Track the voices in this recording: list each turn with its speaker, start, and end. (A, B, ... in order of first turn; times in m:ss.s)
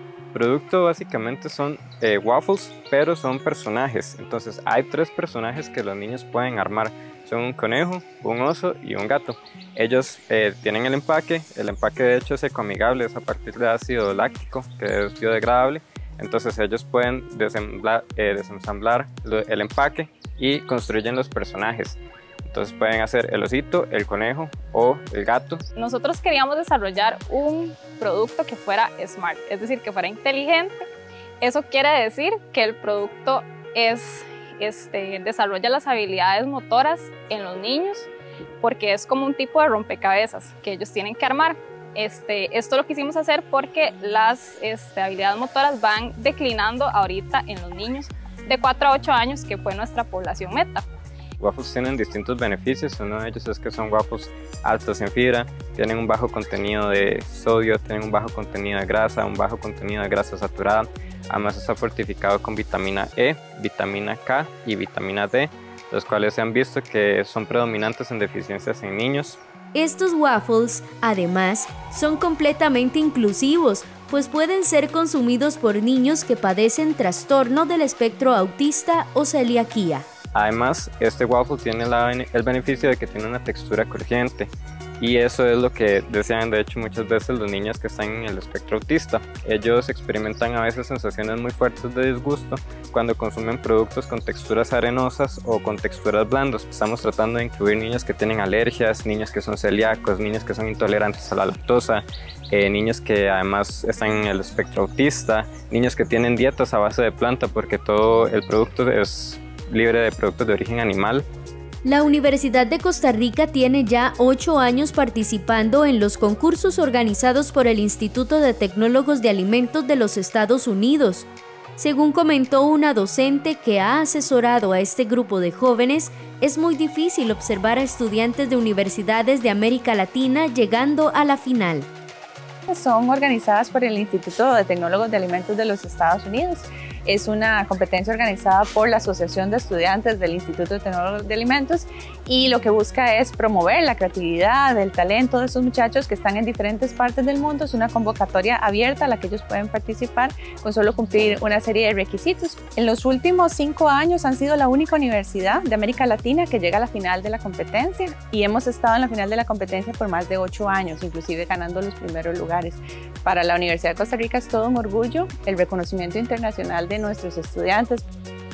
0:00.3-0:25.6 A
0:25.8-0:30.8 B
0:31.4-0:38.1 B
0:38.6-0:50.8 B
0:51.4-1:09.4 A
1:09.7-1:20.1 C
1:20.3-1:51.2 A
1:51.8-2:11.9 C
2:12.7-2:48.0 D